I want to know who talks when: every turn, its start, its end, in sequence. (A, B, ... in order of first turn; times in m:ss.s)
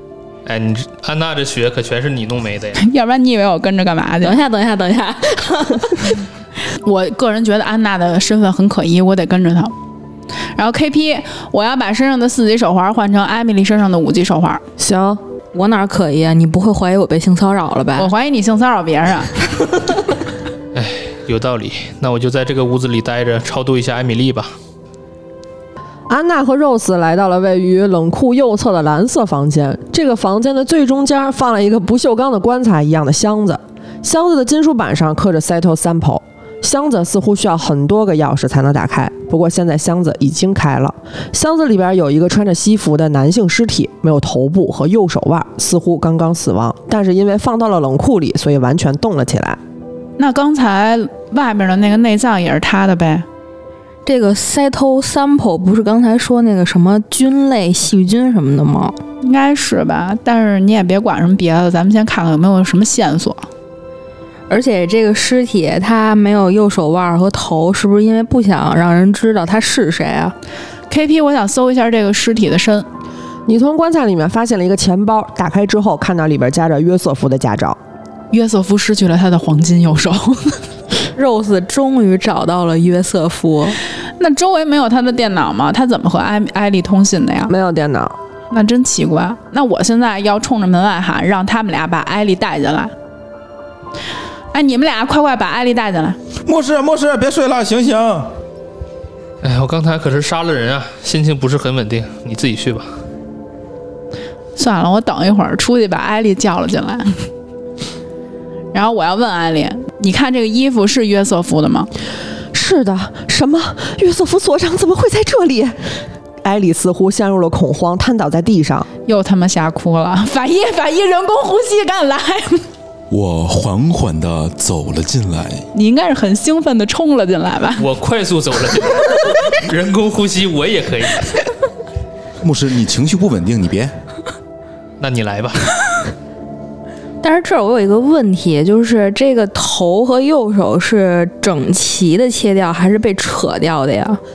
0:00.4-0:02.8 A
0:02.8-0:04.4 B
0:04.2-0:06.1 C
0:06.7-0:09.7 B
0:10.6-0:14.6 B
0:14.8-0:15.2 D
0:15.5-0:18.1 C
0:18.0-0:19.4 B
0:20.7-0:24.6 A
0:26.1-0:49.6 D
0:50.2-0:53.2 B
0:54.1-0:59.0 C
0:59.2-1:03.5 B
1:04.5-1:10.4 C
1:10.9-1:12.9 B
1:13.5-1:17.8 D
1:18.3-1:20.6 B
1:21.1-1:23.8 C
1:24.2-1:27.5 B
1:27.5-1:28.2 D
1:28.5-1:32.9 B
1:34.5-1:36.2 B
1:36.4-1:38.3 E
1:39.4-1:43.0 A
1:44.6-1:47.2 B
1:48.7-1:51.9 B
1:52.5-1:58.9 D
1:59.1-2:02.7 B
2:03.1-2:05.6 E
2:05.7-2:07.8 B
2:07.8-2:11.4 A
2:12.4-2:13.9 E
2:15.0-2:15.7 A
2:17.2-2:24.2 C